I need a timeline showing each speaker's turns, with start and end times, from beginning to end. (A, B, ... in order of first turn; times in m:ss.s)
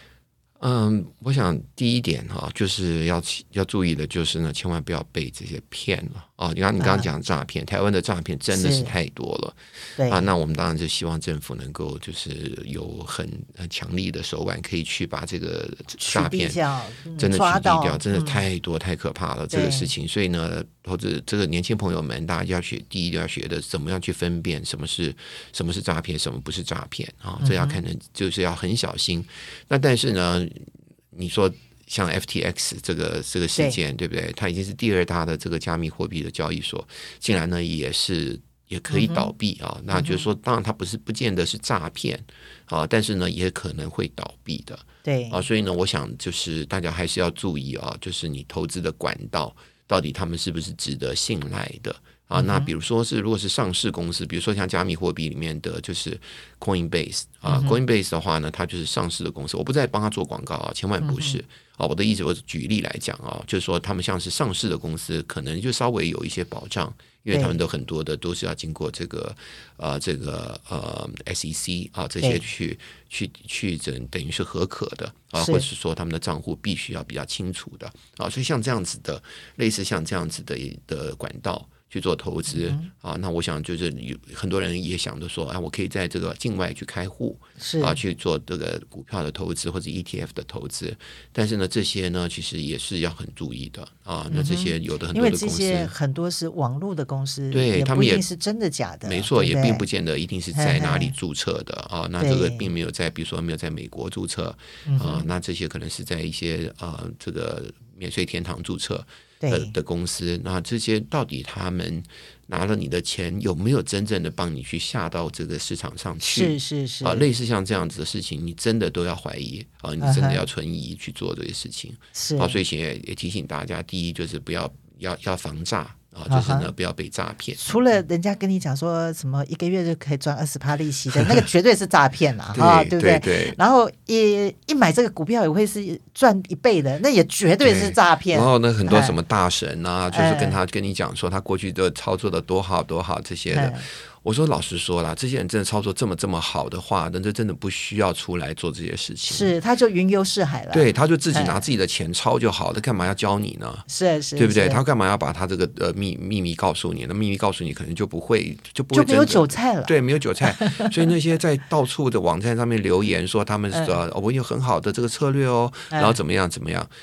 0:00.6-0:16.6 A
0:06.8-0:07.1 B
0:08.5-0:08.9 B
0:10.0-0:10.3 B
0:16.0-0:18.4 B
0:17.2-1:35.9 A
0:19.5-0:19.9 B
0:27.4-0:27.8 B
0:38.9-0:39.3 B
0:39.9-0:40.2 B
0:45.0-0:45.4 B
0:52.3-0:52.7 B
0:57.4-0:57.8 B
1:01.0-1:01.4 B
1:07.3-1:07.6 B
1:15.4-1:15.7 B
1:22.5-1:22.9 B
1:27.6-1:28.0 B
1:34.3-1:39.8 B
1:37.5-1:38.2 A
1:39.0-2:07.6 A
1:40.5-1:41.1 B
1:42.2-1:42.7 B
1:44.8-1:45.3 B
1:49.4-1:49.7 B
1:56.2-1:57.3 B
2:00.0-2:00.4 B
2:02.1-2:02.6 B
2:06.3-2:06.7 B
2:07.6-2:19.2 B
2:11.1-2:11.4 A
2:12.5-2:13.6 A
2:17.6-2:29.5 A
2:20.1-2:20.6 B
2:23.5-2:23.8 B
2:29.3-2:31.6 B
2:30.7-2:46.9 A
2:33.9-2:34.8 B
2:38.9-2:41.0 B
2:43.7-2:44.0 B
2:45.9-2:46.2 B